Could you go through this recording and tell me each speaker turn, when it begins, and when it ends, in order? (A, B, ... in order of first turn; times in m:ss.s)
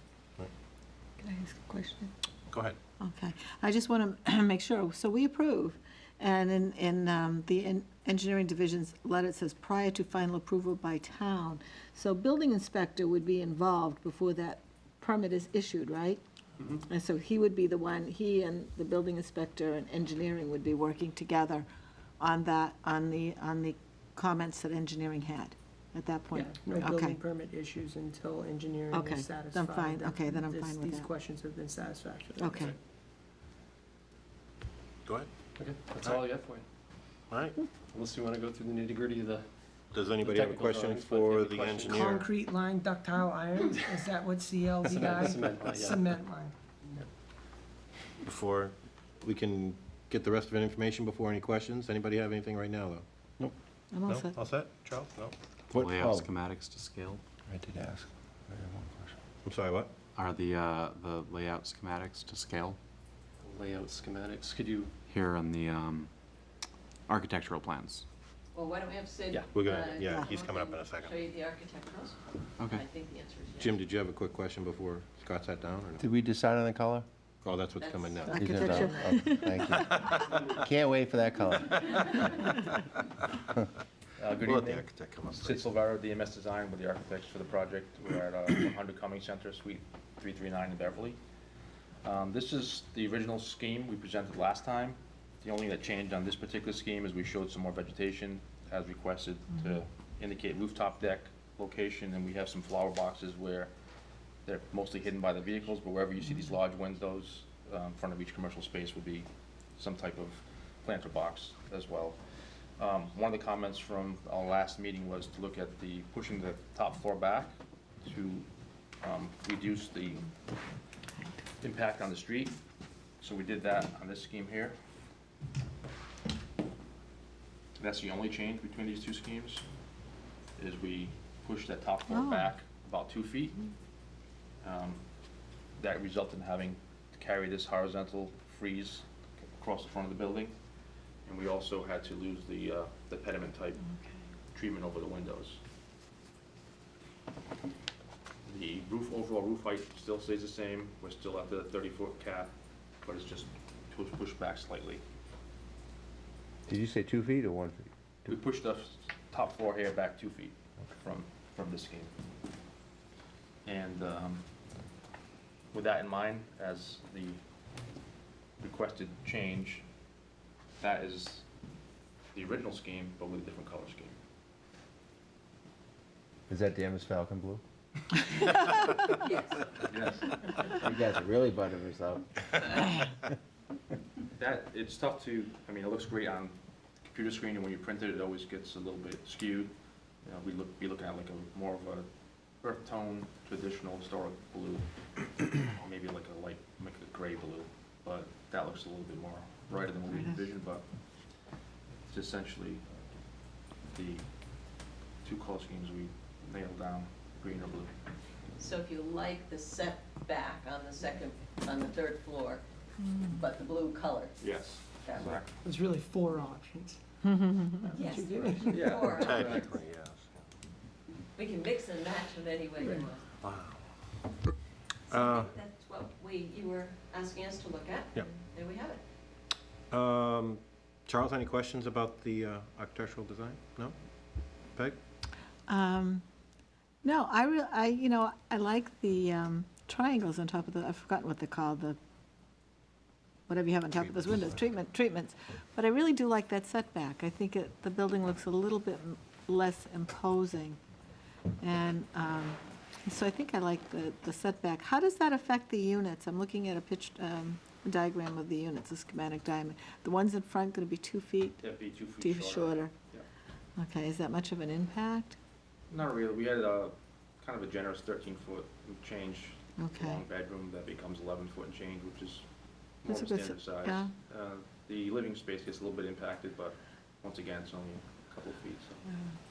0:01.2-0:02.1 A
0:02.5-0:02.8 B
0:03.0-0:16.2 A
0:16.8-0:21.7 A
0:22.2-0:27.2 A
0:26.3-0:32.6 C
0:28.9-0:31.1 A
0:32.4-0:32.8 A
0:35.6-0:36.7 D
0:37.3-0:37.6 B
0:37.9-0:39.5 D
0:39.9-0:42.3 B
0:40.2-0:42.2 D
0:41.9-0:46.6 C
0:44.8-0:46.2 D
0:48.2-0:53.0 B
0:53.9-0:54.4 A
0:54.1-0:55.4 B
0:55.7-0:56.3 E
0:55.7-0:57.2 F
0:57.5-0:59.1 E
0:59.4-0:59.9 B
1:00.2-1:02.8 F
1:03.4-1:04.9 D
1:05.1-1:06.1 F
1:07.1-1:08.0 F
1:08.5-1:13.7 G
1:09.3-1:11.2 B
1:12.6-1:12.8 F
1:13.6-1:16.1 B
1:16.0-1:17.1 E
1:17.4-1:18.5 B
1:17.8-1:18.3 G
1:18.3-1:19.7 A
1:18.4-1:22.3 E
1:18.6-1:18.9 C
1:19.7-1:20.4 B
1:24.2-1:31.2 H
1:24.4-1:25.6 B
1:32.0-1:43.7 H
1:44.4-1:57.5 H
1:58.0-1:58.5 H
1:59.0-2:00.3 H
2:01.6-2:02.6 H
2:03.2-2:04.8 H
2:07.8-2:09.6 H
2:10.6-2:13.6 H
2:12.1-2:12.5 A
2:14.6-2:15.0 H
2:15.8-2:20.6 H
2:21.3-2:23.8 H
2:24.5-2:25.6 H
2:28.5-2:32.5 H
2:33.0-2:35.0 H
2:36.7-2:38.4 E
2:38.3-2:42.1 H
2:43.6-2:44.5 H
2:45.7-2:47.4 H
2:48.6-2:49.8 H
2:50.8-2:51.4 H
2:52.3-2:54.2 H
2:56.5-2:57.6 E
2:59.2-2:59.9 G
2:59.9-3:00.4 H
3:00.8-3:02.8 E
3:04.4-3:12.1 H
3:12.6-3:20.9 H
3:20.1-3:20.4 A
3:22.1-3:22.8 H
3:23.9-3:27.9 H
3:28.6-3:32.6 G
3:33.0-3:33.4 A
3:33.3-3:35.4 G
3:34.4-3:35.6 H
3:35.6-3:37.0 C
3:37.2-3:38.0 A
3:37.8-3:39.5 C
3:38.0-3:39.8 G
3:38.7-3:39.7 H
3:39.2-3:40.2 B
3:41.4-3:43.2 G
3:42.8-3:43.1 C
3:43.4-3:43.7 B
3:45.1-3:49.0 G
3:45.1-3:45.6 B
3:49.9-3:54.0 B
3:55.7-3:56.2 A
3:57.0-4:02.0 A
4:03.5-4:10.8 A
4:11.6-4:21.6 A
4:21.6-4:23.2 H
4:22.2-4:22.9 A
4:23.8-4:25.4 A
4:25.9-4:32.5 H
4:29.8-4:30.2 A
4:33.0-4:39.0 H
4:33.0-4:34.1 A